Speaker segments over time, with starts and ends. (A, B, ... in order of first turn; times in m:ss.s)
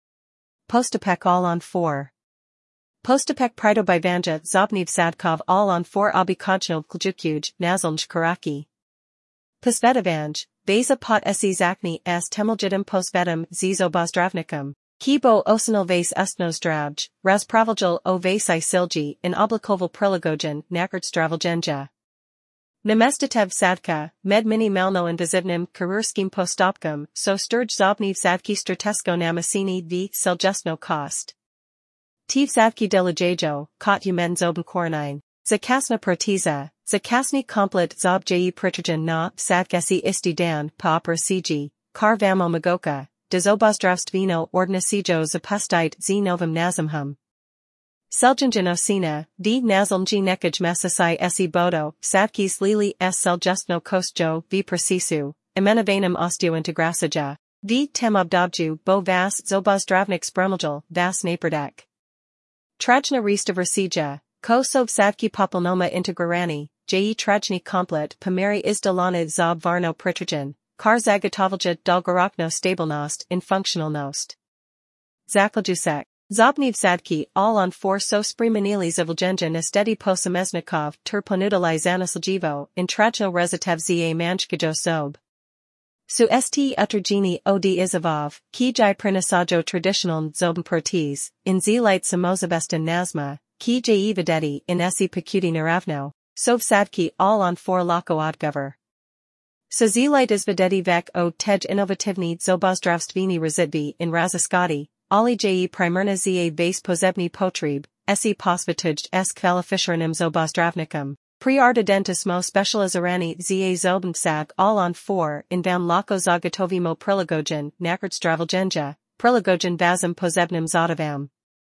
0:00.7-0:02.1 A
0:03.0-0:08.7 A
0:09.6-0:21.9 A
0:22.8-0:31.4 A
0:32.3-0:47.2 A
0:48.1-1:01.9 A
1:02.8-1:14.4 A
1:15.3-1:25.2 A
1:26.1-1:38.8 A
1:39.7-2:01.3 A